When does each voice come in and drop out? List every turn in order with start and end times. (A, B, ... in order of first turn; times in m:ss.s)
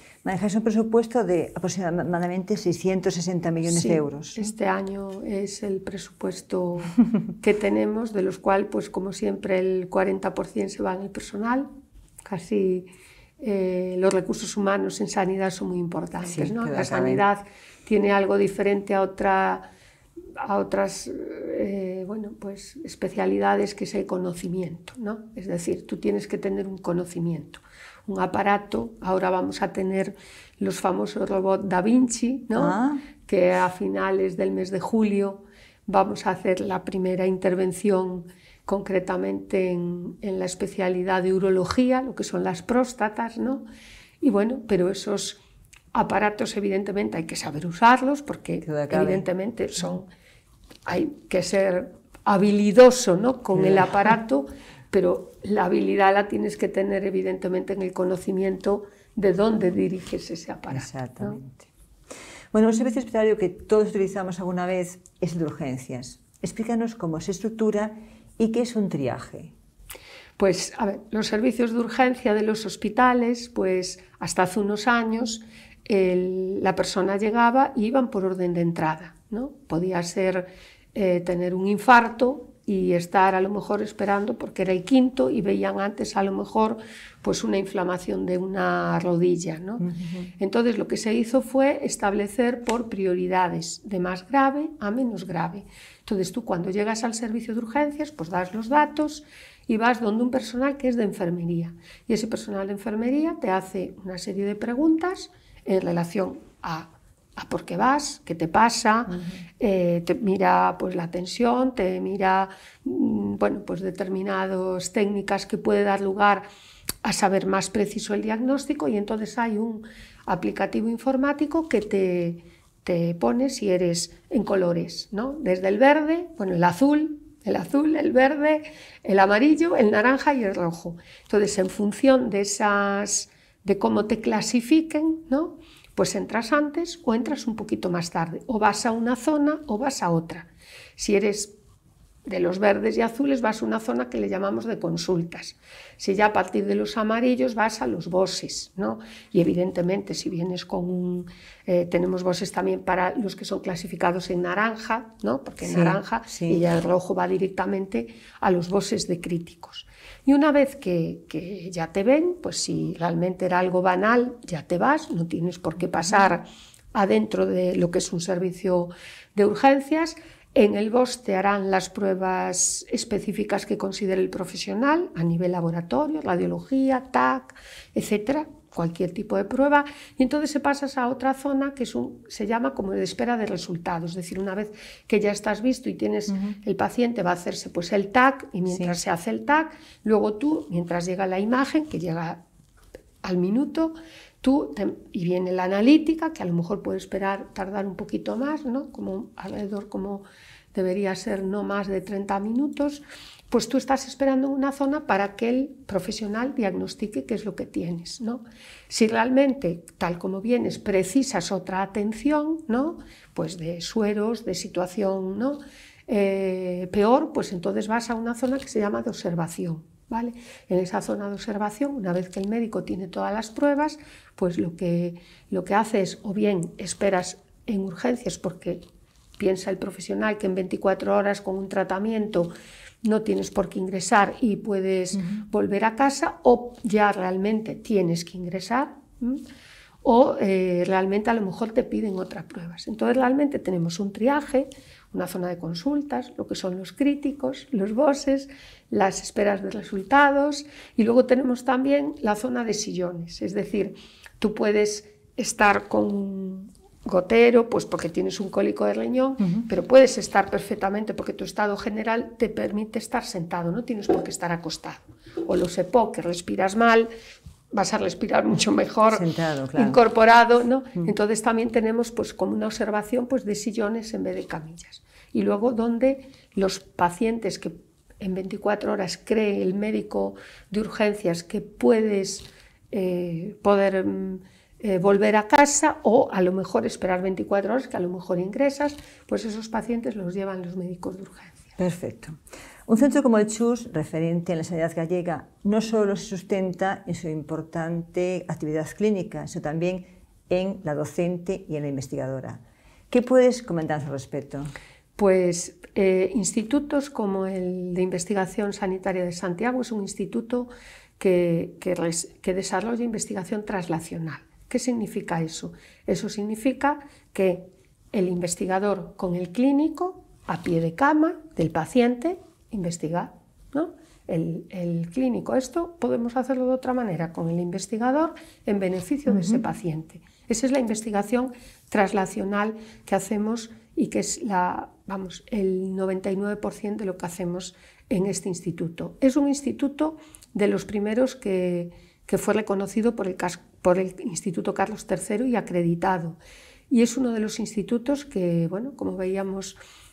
0:00.2-0:04.5 A
0:03.6-0:11.7 B
0:12.2-0:12.9 B
0:13.4-0:19.6 B
0:16.2-0:17.2 A
0:20.4-0:43.6 B
0:32.6-0:33.0 A
0:44.2-0:45.4 B
0:45.9-0:50.1 B
0:48.6-0:49.3 A
0:50.8-1:01.4 B
0:53.5-0:54.0 A
1:00.7-1:01.7 A
1:02.5-1:09.5 A
1:10.4-1:29.8 B
1:29.8-1:30.3 A
1:30.4-1:56.4 B
1:57.0-2:21.5 B
2:22.2-3:12.4 B
2:35.6-2:36.6 A
3:06.3-3:06.6 A
3:08.7-3:08.9 A
3:13.2-3:20.2 B
3:20.7-3:48.8 B
3:49.4-3:52.5 B
3:53.0-3:59.4 B
4:00.0-4:27.1 B
4:27.7-4:51.7 B
4:29.1-4:30.0 A
4:51.8-5:04.7 A
5:05.2-5:46.4 B
5:29.3-5:29.6 A
5:46.9-5:49.8 B